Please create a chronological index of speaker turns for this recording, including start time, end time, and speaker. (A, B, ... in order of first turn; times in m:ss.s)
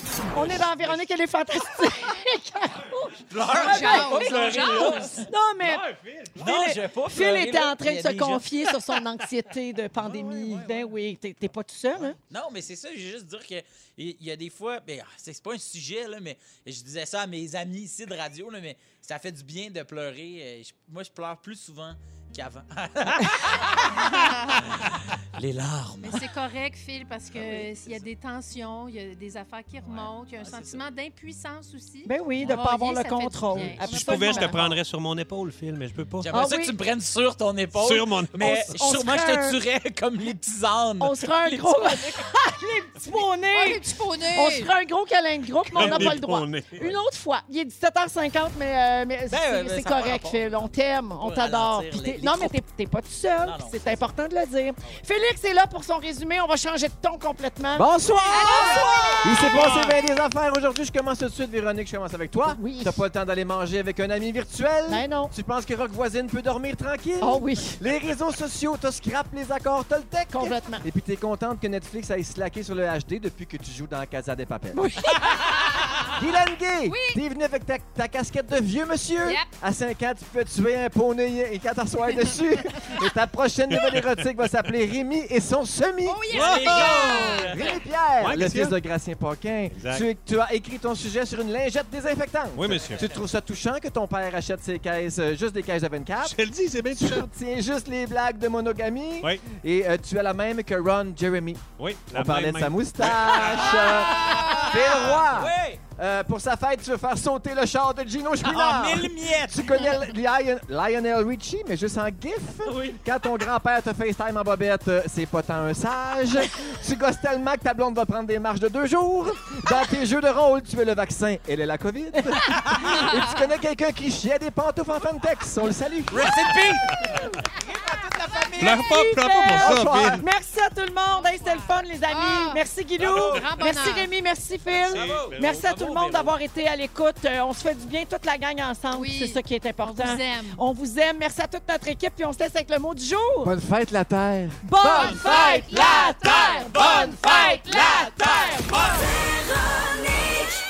0:00.3-0:12.2 A
0:03.3-0:05.3 B
0:03.5-0:05.1 C
0:05.6-0:06.5 D
0:06.4-0:08.5 B
0:09.9-0:10.7 D
0:12.0-0:26.3 B
0:24.0-0:24.5 C
0:26.0-0:34.6 C
0:27.3-0:28.0 B
0:29.8-0:30.8 B
0:32.1-0:34.8 A
0:33.5-0:36.3 D
0:36.2-0:42.3 B
0:36.3-0:36.7 A
0:37.8-0:38.7 D
0:38.4-0:39.6 A
0:41.0-0:59.9 A
0:43.2-0:44.7 C
0:45.7-0:46.2 C
0:45.7-0:47.0 D
0:49.3-0:52.6 B
0:53.4-0:54.1 B
0:57.8-1:14.8 E
0:58.3-0:59.2 C
0:58.5-0:59.2 B
0:59.5-0:59.9 D
1:02.4-1:03.0 A
1:04.9-1:05.3 A
1:07.2-1:07.8 A
1:10.3-1:10.9 A
1:14.7-1:15.7 A
1:15.1-1:16.1 C
1:16.1-1:26.9 E
1:16.8-1:17.2 C
1:19.2-1:19.5 C
1:23.7-1:24.3 D
1:26.0-1:27.8 C
1:26.3-1:27.8 B
1:26.3-1:27.5 D
1:27.5-1:36.4 E
1:28.2-1:28.8 D
1:29.7-1:30.1 D
1:32.5-1:33.1 D
1:36.2-1:37.3 D
1:36.9-2:06.6 E
1:39.2-1:39.5 D
1:41.8-1:43.7 D
1:43.3-1:45.8 B
1:43.4-1:45.1 C
1:48.4-1:49.8 B
1:52.6-1:53.0 B
2:02.2-2:02.5 A
2:02.8-2:03.3 C
2:06.1-2:08.9 B
2:06.3-2:07.2 D
2:08.6-2:23.5 A
2:08.6-2:10.2 D
2:09.6-2:10.2 E
2:11.1-2:12.6 C
2:13.0-2:13.6 D
2:13.0-2:13.5 B
2:13.2-2:14.1 C
2:14.8-2:16.0 D
2:14.8-2:16.4 B
2:18.9-2:20.6 C
2:23.4-2:26.9 E
2:24.6-2:30.4 A
2:24.9-2:28.5 C